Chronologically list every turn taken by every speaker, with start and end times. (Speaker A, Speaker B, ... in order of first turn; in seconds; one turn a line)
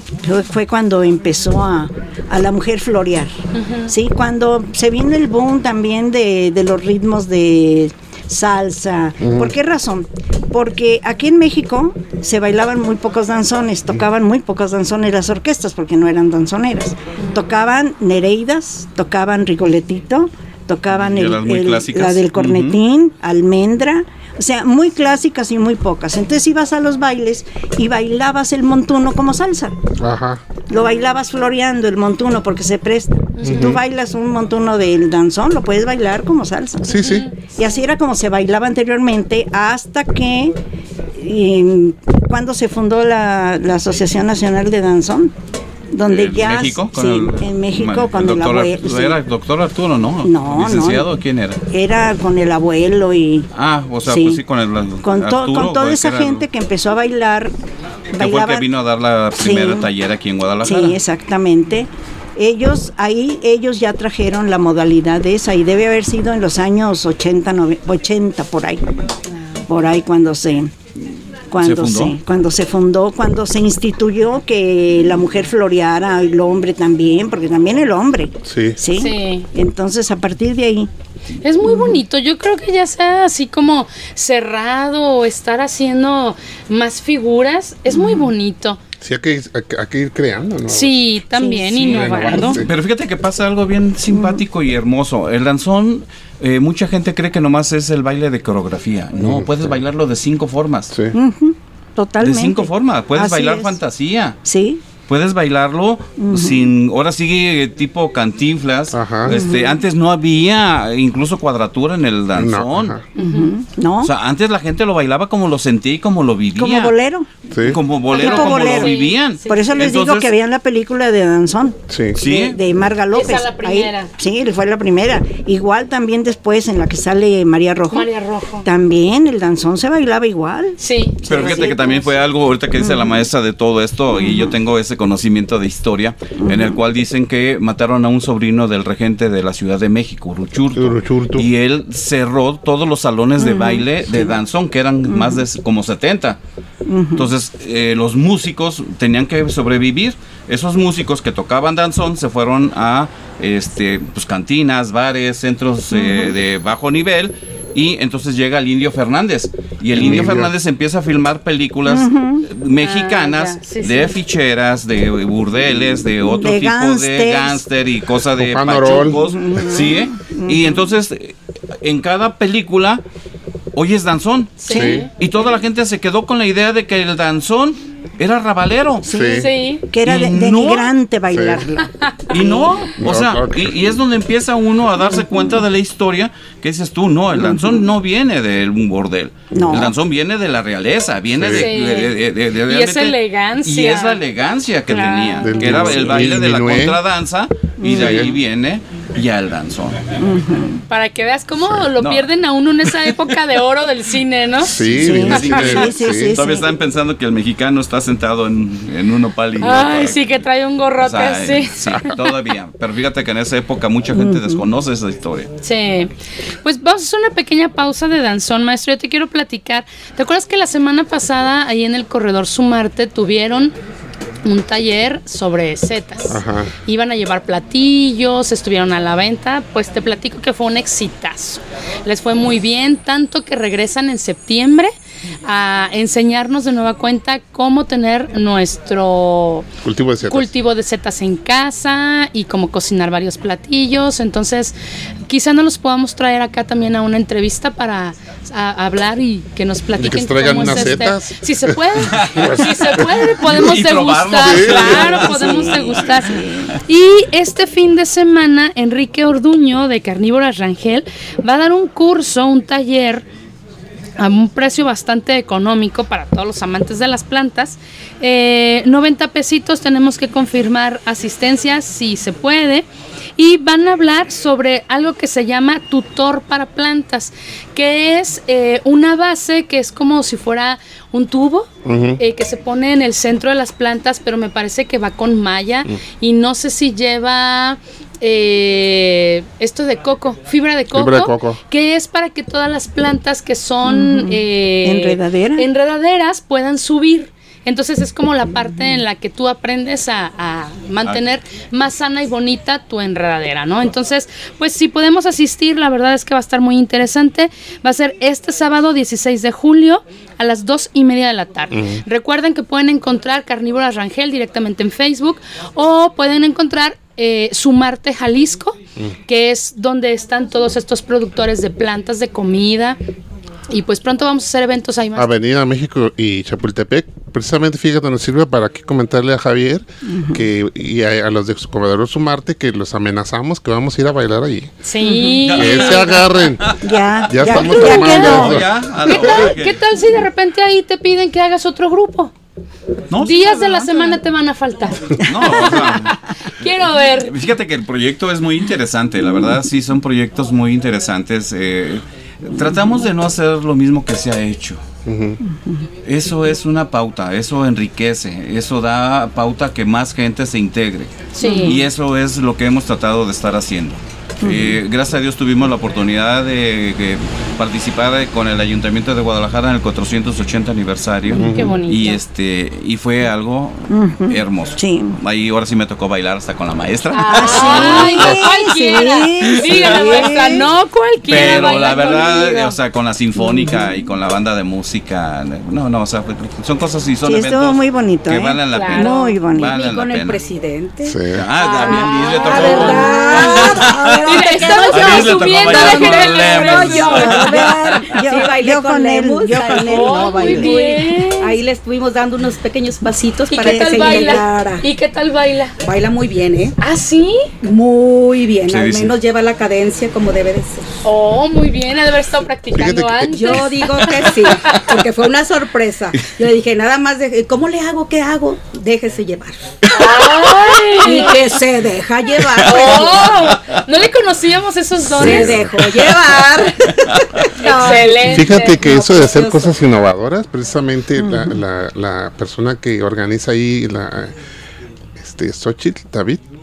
Speaker A: 0.2-3.3
Speaker B: 3.5-3.9
Speaker A: 3.8-29.8
Speaker C: 9.2-9.5
Speaker D: 21.0-22.8
Speaker C: 30.0-30.4
Speaker A: 30.7-40.5
Speaker B: 33.4-33.8
Speaker C: 33.5-33.8
Speaker C: 36.8-37.3
Speaker B: 37.0-37.4
Speaker A: 41.1-45.3
Speaker A: 45.9-49.2
Speaker D: 46.1-51.6
Speaker A: 50.2-51.1
Speaker A: 51.7-53.5
Speaker D: 53.5-56.5
Speaker A: 54.0-54.4
Speaker A: 55.0-57.5
Speaker A: 58.1-58.7
Speaker D: 58.2-61.0
Speaker A: 59.3-59.9
Speaker A: 60.6-68.9
Speaker A: 69.7-70.7
Speaker A: 71.5-80.9
Speaker D: 71.6-72.2
Speaker C: 78.5-78.8
Speaker B: 78.9-79.5
Speaker B: 81.4-88.8
Speaker A: 87.9-88.3
Speaker C: 89.0-91.0
Speaker B: 90.7-92.6
Speaker A: 91.3-92.6
Speaker C: 91.8-92.7
Speaker D: 92.6-100.9
Speaker A: 94.1-94.4
Speaker C: 99.2-99.8
Speaker A: 101.1-103.8
Speaker D: 102.2-104.4
Speaker A: 104.5-104.8
Speaker D: 105.0-113.0
Speaker A: 106.2-106.7
Speaker C: 108.9-109.4
Speaker A: 109.3-109.8
Speaker C: 112.4-113.0
Speaker B: 113.2-113.5
Speaker A: 113.2-114.1
Speaker D: 114.0-116.9
Speaker A: 116.5-117.3
Speaker C: 117.5-117.8
Speaker D: 117.6-120.3
Speaker B: 118.1-119.8
Speaker A: 118.1-128.1
Speaker C: 121.9-122.2
Speaker D: 122.1-122.6
Speaker B: 123.1-124.1
Speaker B: 127.9-128.7
Speaker A: 128.6-131.8
Speaker B: 130.8-131.9
Speaker D: 131.2-146.4
Speaker A: 132.8-133.2
Speaker A: 134.1-134.6
Speaker A: 136.4-136.8
Speaker C: 140.8-141.5
Speaker A: 143.4-144.4
Speaker A: 145.1-145.4
Speaker A: 146.8-147.3
Speaker D: 147.2-173.0
Speaker A: 155.9-156.4
Speaker C: 159.9-160.5
Speaker A: 161.9-162.5
Speaker B: 162.8-164.2
Speaker A: 166.2-167.6
Speaker C: 168.4-169.3
Speaker A: 169.1-170.8
Speaker D: 173.7-179.1
Speaker B: 174.6-175.1
Speaker C: 174.7-175.1
Speaker A: 179.0-182.9
Speaker C: 179.1-179.5
Speaker B: 179.3-179.8
Speaker D: 180.1-180.9
Speaker C: 181.3-181.6
Speaker B: 181.9-182.3
Speaker D: 182.3-200.0
Speaker C: 183.0-183.7
Speaker A: 185.1-185.5
Speaker A: 187.4-187.8
Speaker A: 189.5-189.9
Speaker C: 191.3-191.7
Speaker B: 191.5-192.1
Speaker B: 192.7-194.2
Speaker B: 194.9-195.6
Speaker C: 195.4-196.9
Speaker A: 195.6-196.4
Speaker A: 197.8-198.3
Speaker C: 197.9-198.3
Speaker A: 200.2-200.8
Speaker B: 200.9-204.8
Speaker D: 201.9-202.3
Speaker D: 202.9-203.2
Speaker C: 204.6-206.4
Speaker A: 204.9-206.7
Speaker D: 204.9-210.2
Speaker B: 209.6-212.2
Speaker D: 211.0-215.5
Speaker A: 214.1-214.6
Speaker B: 215.6-223.7
Speaker B: 224.4-239.7
Speaker C: 226.3-226.7
Speaker C: 239.8-240.5
Speaker B: 240.2-244.7
Speaker B: 245.3-263.3
Speaker C: 249.9-251.8
Speaker D: 252.0-256.0
Speaker C: 252.3-253.0
Speaker C: 254.4-255.1
Speaker A: 255.1-256.7
Speaker B: 264.2-272.9
Speaker B: 273.4-323.0
Speaker C: 281.8-282.2
Speaker C: 290.9-291.6
Speaker A: 293.8-295.7
Speaker C: 311.7-312.0
Speaker B: 323.7-325.3
Speaker C: 325.2-334.7
Speaker A: 330.0-330.4
Speaker B: 334.8-336.3
Speaker A: 335.0-335.4
Speaker D: 335.4-336.8
Speaker C: 335.5-336.7
Speaker A: 336.8-338.6
Speaker C: 337.3-338.7
Speaker D: 337.4-339.8
Speaker B: 339.0-342.3
Speaker D: 343.1-344.2
Speaker B: 343.2-347.4
Speaker D: 345.2-346.2
Speaker D: 347.1-354.8
Speaker C: 355.1-355.4
Speaker A: 355.4-355.9
Speaker D: 356.0-378.6
Speaker B: 361.4-361.8
Speaker A: 361.4-361.8
Speaker A: 364.4-364.8
Speaker C: 371.3-371.8
Speaker B: 371.4-372.2
Speaker A: 373.9-375.2
Speaker B: 377.1-382.7
Speaker A: 377.2-380.7
Speaker D: 379.4-380.3
Speaker D: 381.3-390.4
Speaker A: 383.4-384.1
Speaker A: 387.2-389.7
Speaker B: 388.7-389.1
Speaker E: 388.9-404.9
Speaker C: 391.1-391.4
Speaker D: 391.3-398.2
Speaker B: 391.6-397.5
Speaker A: 392.5-393.9
Speaker A: 397.3-400.8
Speaker B: 399.8-401.6
Speaker B: 403.5-405.8
Speaker A: 403.7-404.3
Speaker E: 405.8-406.7
Speaker B: 406.8-407.5
Speaker E: 407.6-410.9
Speaker D: 408.7-409.1
Speaker B: 411.0-414.8
Speaker C: 412.7-413.7
Speaker E: 413.3-419.7
Speaker B: 419.9-421.5
Speaker E: 420.9-423.4
Speaker D: 422.4-423.8
Speaker B: 422.6-425.6
Speaker C: 425.1-425.8
Speaker E: 425.1-429.7
Speaker D: 427.1-427.4
Speaker B: 427.6-428.8
Speaker C: 428.3-434.4
Speaker A: 431.2-431.6
Speaker C: 435.2-436.4